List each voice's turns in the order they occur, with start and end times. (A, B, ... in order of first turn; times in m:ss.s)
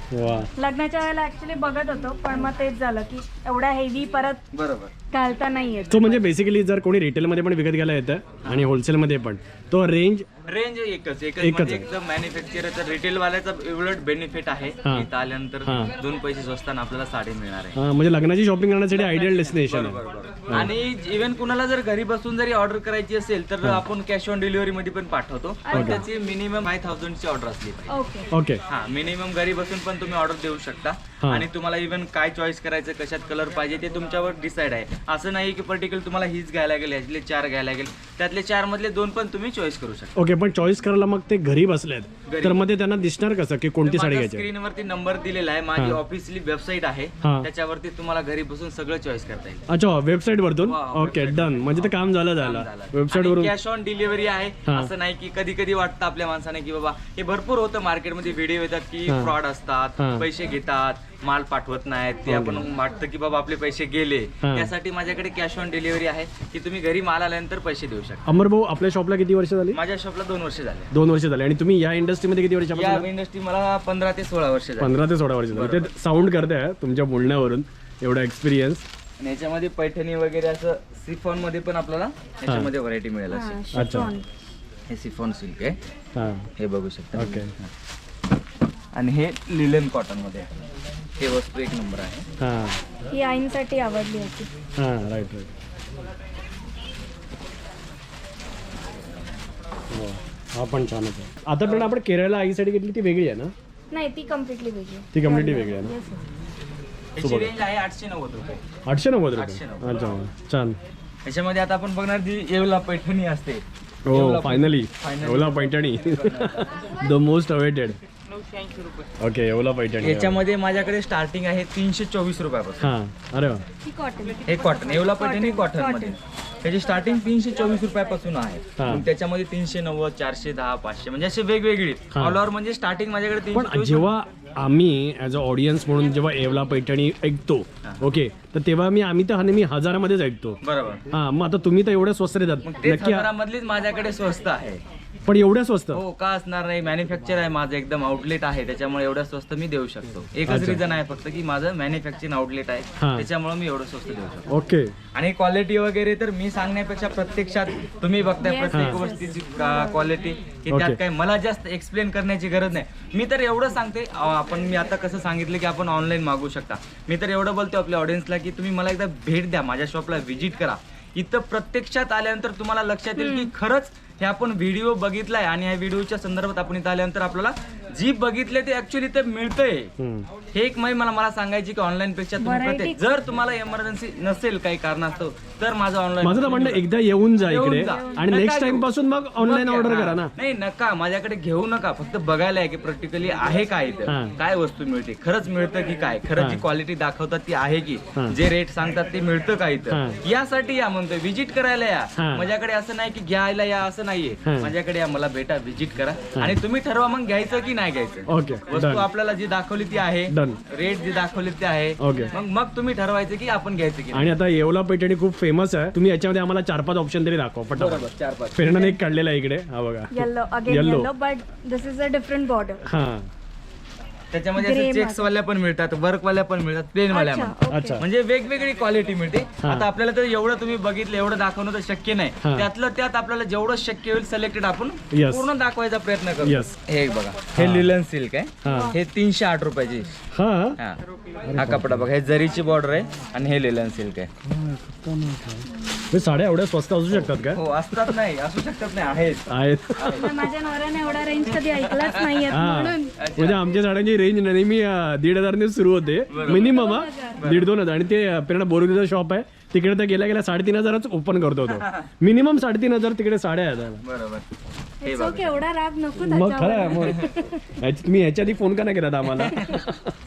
0:00.1-0:00.5 A
0:00.6-0:04.4 B
0:04.5-0:04.9 C
0:05.1-0:06.2 B
0:05.9-0:10.2 A
0:10.4-0:17.8 C
0:11.4-0:11.8 A
0:15.6-0:15.9 A
0:17.8-0:20.0 A
0:18.9-0:27.9 C
0:25.6-0:26.1 B
0:25.7-0:26.0 A
0:27.9-0:28.3 B
0:28.3-0:28.6 A
0:28.7-0:40.1 C
0:40.2-0:44.5 A
0:42.3-0:42.6 C
0:43.8-0:49.6 C
0:47.2-0:47.5 A
0:49.7-0:53.5 A
0:50.6-1:08.2 C
0:59.0-0:59.3 A
1:00.0-1:00.2 A
1:02.3-1:02.6 A
1:04.4-1:04.7 A
1:08.2-1:09.8 A
1:09.7-1:10.9 C
1:10.9-1:13.1 A
1:12.7-1:14.9 C
1:14.8-1:18.8 A
1:15.5-1:15.9 C
1:19.2-1:23.6 C
1:22.4-1:22.7 A
1:23.3-1:24.4 B
1:23.7-1:24.1 A
1:24.9-1:25.8 C
1:26.2-1:26.4 A
1:26.6-1:27.7 C
1:27.1-1:27.5 A
1:28.9-1:30.5 C
1:31.2-1:32.2 C
1:32.4-1:32.8 A
1:33.1-1:34.5 B
1:34.8-1:35.5 A
1:39.9-1:43.5 A
1:41.6-1:41.9 C
1:43.9-1:46.2 B
1:45.1-1:45.9 A
1:47.2-1:48.6 C
1:47.2-1:47.5 A
1:48.9-1:50.8 A
1:49.3-1:50.1 C
1:51.2-1:56.6 C
1:54.1-1:58.0 A
1:59.2-2:00.4 A
2:00.0-2:02.9 C
2:02.8-2:03.6 A
2:03.8-2:06.2 B
2:04.4-2:14.1 C
2:08.8-2:09.0 A
2:12.1-2:12.4 A
2:13.5-2:20.6 A
2:20.6-2:21.0 C
2:21.1-2:23.3 A
2:22.6-2:24.8 C
2:25.2-2:26.0 A
2:25.9-2:34.5 C
2:30.4-2:30.8 A
2:33.0-2:33.3 A
2:34.5-2:34.9 A
2:35.1-2:59.9 C
2:38.4-2:40.0 B
2:38.7-2:39.1 A
2:40.7-2:41.0 A
2:53.2-2:53.5 B
3:00.0-3:00.3 A
3:00.5-3:06.8 C
3:02.4-3:03.1 B
3:06.2-3:10.3 A
3:07.4-3:34.3 C
3:07.8-3:08.4 B
3:14.1-3:14.3 A
3:16.4-3:16.6 A
3:19.9-3:20.2 A
3:22.2-3:22.5 A
3:24.4-3:24.7 A
3:28.3-3:29.0 A
3:30.3-3:30.6 A
3:32.0-3:32.3 A
3:34.1-3:41.1 A
3:37.8-3:38.6 C
3:38.7-3:39.0 B
3:40.1-3:42.8 B
3:42.8-3:43.3 A
3:44.3-4:00.1 C
3:44.6-3:45.3 B
3:47.1-3:48.0 B
3:47.7-3:48.0 A
3:52.4-3:52.7 A
3:55.1-3:55.5 A
3:56.4-3:56.7 A
3:57.5-3:57.9 A
3:58.6-3:59.0 A
3:58.6-3:59.0 B
4:00.3-4:00.8 A
4:01.5-4:02.0 A
4:01.5-4:04.3 C
4:04.5-4:08.0 A
4:05.6-4:06.2 B
4:07.1-4:10.4 C
4:09.5-4:10.4 A
4:10.1-4:13.2 B
4:11.8-4:12.4 C
4:12.5-4:24.0 A
4:13.2-4:13.7 C
4:16.3-4:16.8 C
4:16.4-4:17.4 B
4:17.4-4:17.7 C
4:24.0-4:24.4 C
4:25.0-4:27.8 B
4:25.0-4:25.6 C
4:26.2-4:30.1 A
4:29.3-4:29.8 C